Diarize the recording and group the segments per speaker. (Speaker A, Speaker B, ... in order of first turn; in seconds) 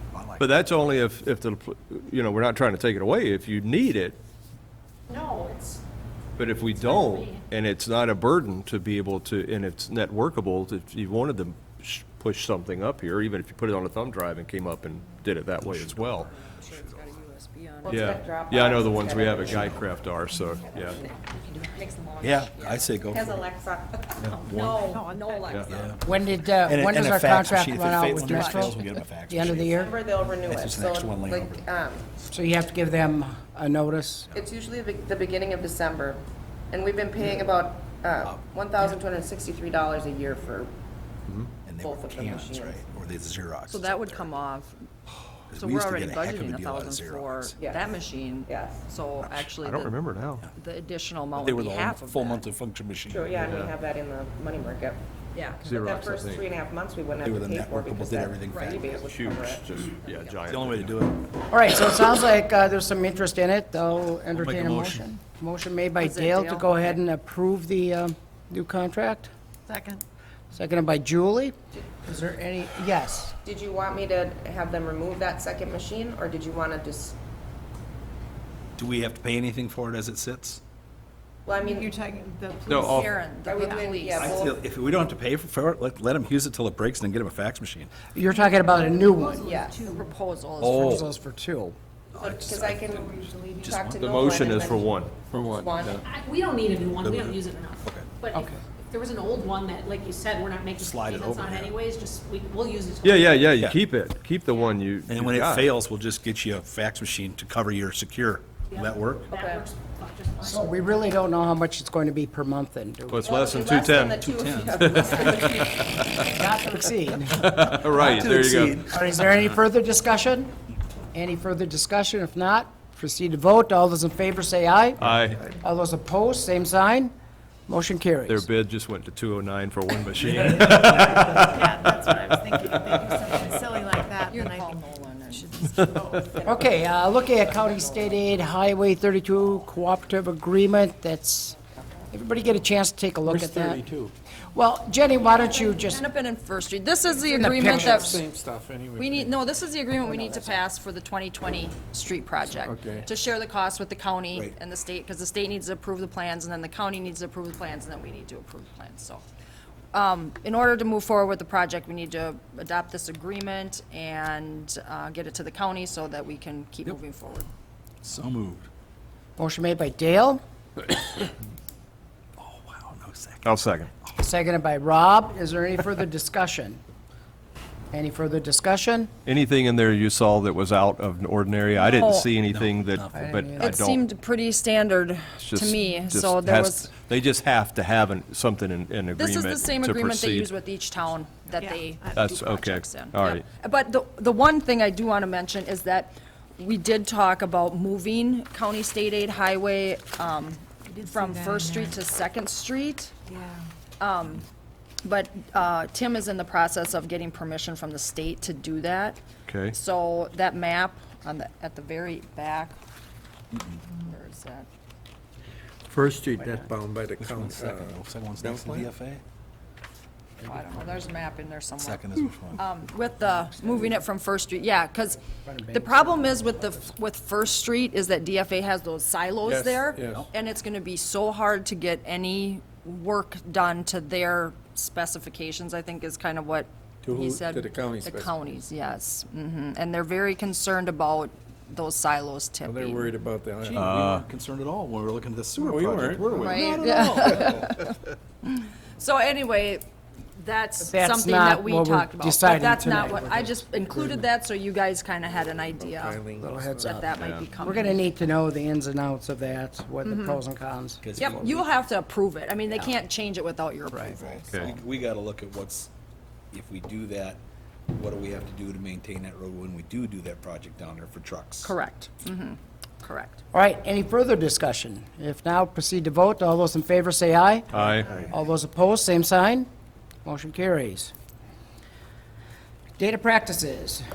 Speaker A: 0.1-0.6, 15.6-17.1, 19.5-19.8, 22.2-23.5, 24.2-24.9, 25.6-26.1, 26.6-29.8, 30.4-31.7, 41.6-44.4, 45.5-47.6, 49.2-49.5, 51.4-53.4, 57.2-59.0, 60.5-61.3, 64.3-65.0, 78.8-80.6, 84.2-88.0, 90.6-91.0, 92.1-94.1, 97.0-98.2, 100.8-101.8, 103.5-103.8, 105.1-109.3, 114.1-115.2, 117.7-119.0, 168.0-168.7, 172.4-173.6, 182.4-183.2, 213.5-213.8, 217.2-219.2, 221.8-222.6, 243.6-247.6, 261.0-261.7, 264.1-265.9, 266.5-271.7
Speaker B: 0.4-4.2, 6.4-16.3, 17.9-21.0, 49.6-50.4, 53.4-53.7, 55.6-56.5, 59.1-61.0, 94.0-95.1, 103.0-105.7, 113.1-114.2, 114.8-116.3, 117.3-118.9, 125.0-125.5, 128.3-133.6, 135.7-136.1, 173.4-173.9, 179.2-184.0, 185.4-190.5, 192.1-193.4, 209.5-209.8, 243.8-244.2, 257.1-257.4, 277.7-278.3
Speaker C: 5.1-5.8, 6.7-7.4, 21.0-21.8, 88.9-89.4, 96.0-103.5, 108.7-110.8
Speaker D: 16.3-18.1, 21.6-22.9, 24.2-26.0, 28.1-28.7, 43.7-44.8, 45.5-50.0, 50.5-52.5, 55.3-55.6, 58.5-58.8, 66.0-67.0, 82.7-84.5, 89.5-91.1, 134.3-135.6, 145.3-148.2, 149.0-159.2, 159.9-167.5, 181.8-182.3, 183.6-186.9, 189.2-203.1, 204.0-204.4, 205.0-209.2, 209.7-212.8, 214.0-214.7, 220.4-225.2, 225.7-243.1, 246.3-249.8, 250.4-256.2, 256.8-258.1, 260.0-260.4, 261.2-264.8, 271.6-273.4
Speaker E: 17.8-19.8, 20.7-21.1, 23.1-24.2, 29.6-32.0, 34.3-40.7, 41.8-42.8, 48.5-48.8, 53.1-55.0, 55.6-60.4, 73.4-77.2, 81.5-81.9, 83.4-84.5, 89.4-89.9, 92.2-94.9, 95.5-96.0, 109.3-109.6, 113.2-116.2, 137.4-138.2
Speaker F: 24.9-25.5, 69.7-70.0, 81.5-83.0, 89.1-90.0, 93.3-93.6, 131.2-136.5, 191.6-192.2, 201.0-202.0, 203.3-203.6
Speaker G: 26.0-30.0, 32.3-34.3, 61.5-69.3, 70.5-73.3, 88.1-89.5, 90.6-91.8, 98.3-98.6, 110.4-113.3, 116.2-117.5, 118.8-120.5, 121.1-127.1, 127.7-128.5, 136.4-141.6, 142.1-143.8, 144.5-146.0, 147.3-148.2, 169.4-170.4, 174.2-176.8, 177.9-179.1, 183.1-183.8, 225.4-226.9, 250.8-254.3, 256.4-261.2, 273.5-279.7, 280.2-281.1, 283.0-284.0
Speaker H: 95.3-96.0, 143.2-144.1, 147.2-149.3, 152.6-153.1, 215.9-218.9, 229.4-230.3, 237.0-238.5, 242.6-244.2, 245.6-246.6, 255.7-257.0